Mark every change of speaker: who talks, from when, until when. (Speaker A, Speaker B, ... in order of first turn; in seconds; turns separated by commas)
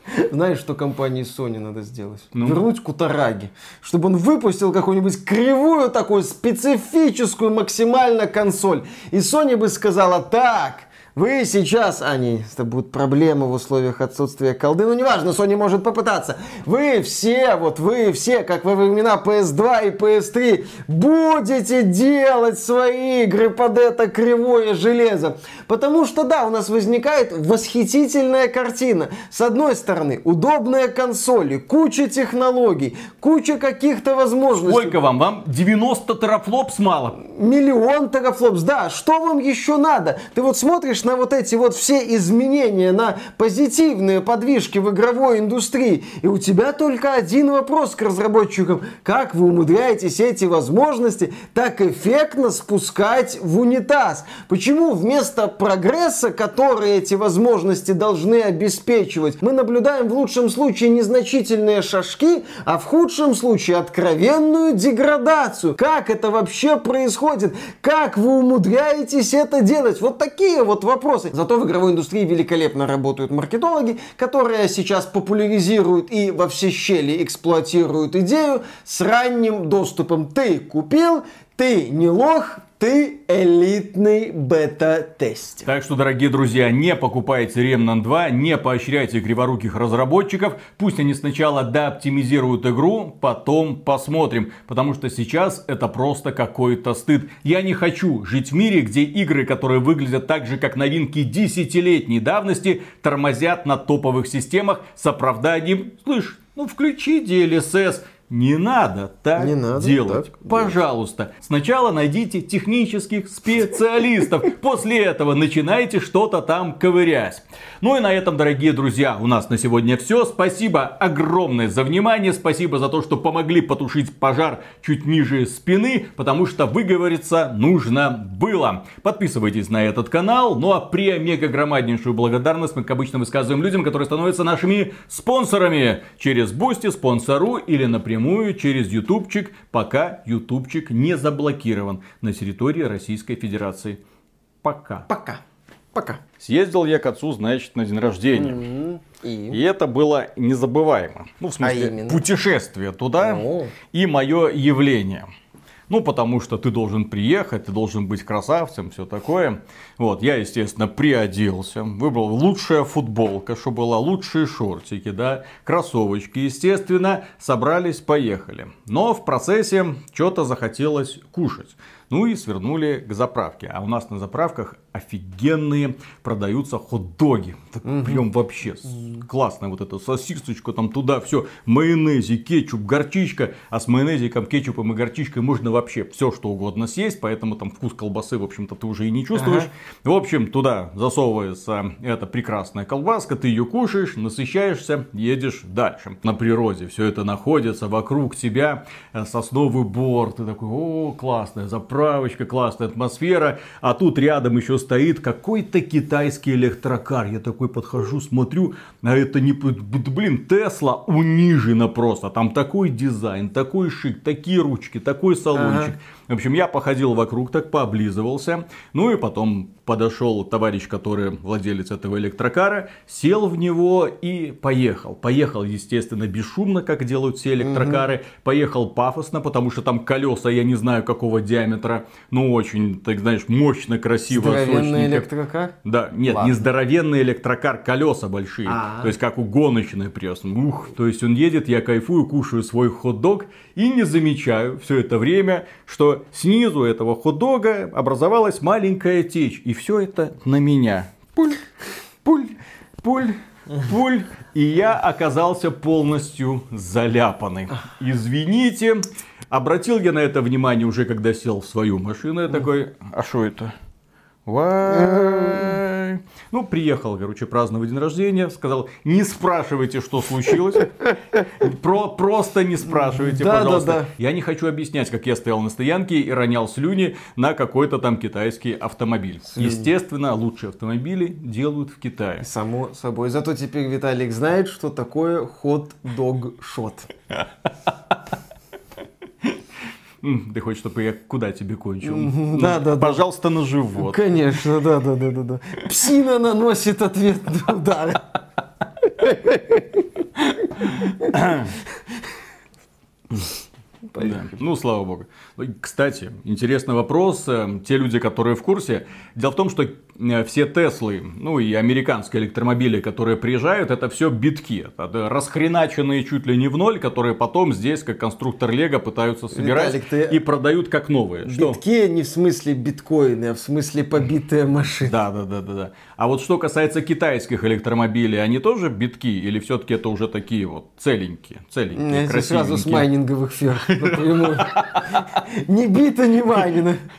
Speaker A: 0.1-35.0, Speaker B: 2.4-2.6, Speaker B: 34.6-37.2, Speaker A: 37.2-85.7, Speaker B: 85.7-144.0, Speaker A: 109.4-110.8, Speaker B: 144.6-145.1, Speaker A: 145.1-145.4, Speaker A: 145.9-146.2, Speaker B: 146.4-148.6, Speaker A: 148.3-149.6, Speaker B: 149.5-155.3, Speaker A: 151.6-152.2, Speaker A: 153.2-153.7, Speaker B: 155.9-235.3, Speaker A: 177.8-178.2, Speaker A: 189.4-189.7, Speaker A: 215.6-215.9, Speaker A: 227.6-228.0, Speaker A: 234.3-235.7, Speaker B: 235.8-251.6, Speaker A: 236.3-236.6, Speaker A: 238.7-239.1, Speaker B: 252.2-263.7, Speaker B: 264.4-270.9, Speaker A: 264.9-265.8, Speaker B: 271.4-282.4, Speaker A: 272.9-274.1, Speaker A: 279.6-279.9, Speaker A: 282.4-287.1, Speaker B: 290.2-294.2, Speaker A: 292.0-293.2, Speaker A: 294.0-298.3, Speaker A: 299.2-299.8, Speaker B: 300.6-301.8, Speaker A: 304.1-304.5, Speaker B: 304.2-321.8, Speaker A: 319.5-320.4, Speaker A: 321.4-325.1, Speaker B: 325.0-333.1, Speaker A: 331.9-337.0, Speaker B: 333.9-335.2